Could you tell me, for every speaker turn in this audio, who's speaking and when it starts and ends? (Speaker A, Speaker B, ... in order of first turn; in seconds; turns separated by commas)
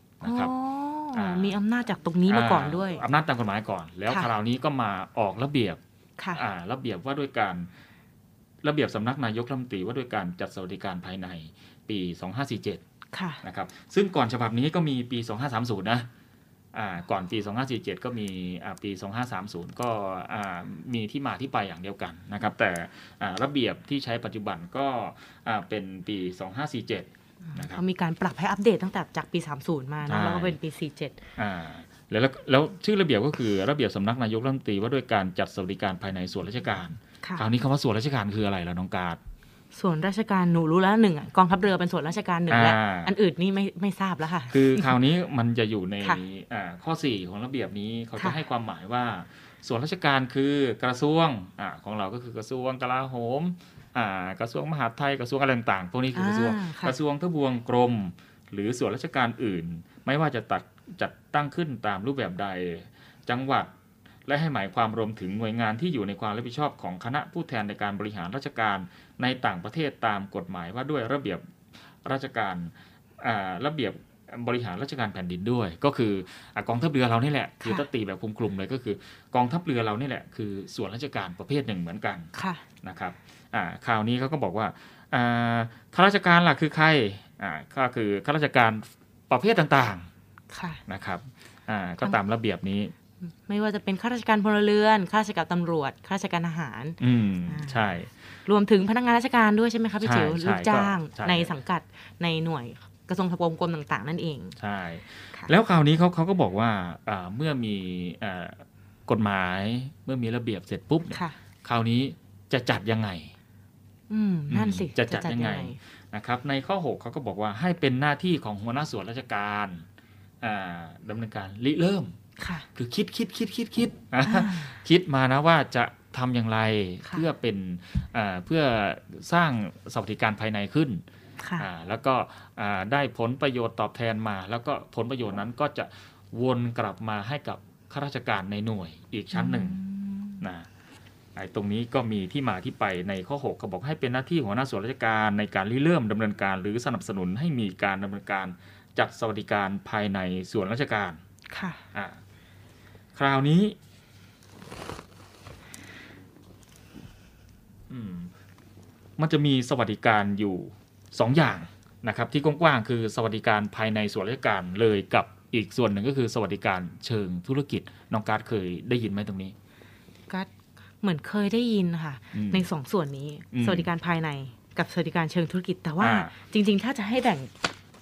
Speaker A: 0.2-0.5, Speaker B: 0.2-3.0, Speaker A: 1.1-1.6, Speaker A: 2.3-5.8, Speaker A: 6.3-7.7, Speaker A: 8.6-12.8, Speaker B: 13.1-13.4, Speaker A: 13.4-16.1, Speaker A: 16.7-27.8, Speaker B: 27.5-31.2, Speaker A: 30.1-30.6, Speaker A: 31.4-39.2, Speaker B: 39.7-44.9, Speaker A: 42.5-43.1, Speaker A: 44.5-63.7, Speaker B: 56.1-56.9, Speaker A: 64.3-71.4, Speaker A: 72.0-82.3, Speaker B: 82.3-82.6, Speaker A: 82.8-90.1, Speaker B: 90.5-90.8, Speaker A: 90.9-92.9, Speaker B: 93.5-97.8, Speaker A: 97.0-98.1, Speaker B: 98.5-104.5, Speaker A: 100.0-101.5, Speaker A: 104.6-113.3, Speaker B: 114.1-115.8, Speaker A: 114.5-119.8, Speaker A: 120.4-122.2, Speaker B: 122.4-122.7, Speaker A: 122.8-131.0, Speaker B: 124.3-124.7, Speaker B: 131.4-131.7, Speaker A: 131.6-139.8, Speaker B: 139.3-140.4, Speaker A: 140.4-140.7, Speaker A: 141.4-151.2, Speaker B: 151.5-151.8, Speaker A: 151.9-152.2, Speaker A: 153.2-153.8, Speaker A: 157.9-158.3, Speaker A: 159.2-169.5, Speaker B: 171.0-177.5, Speaker A: 172.3-172.7, Speaker A: 173.5-173.9, Speaker A: 176.0-176.3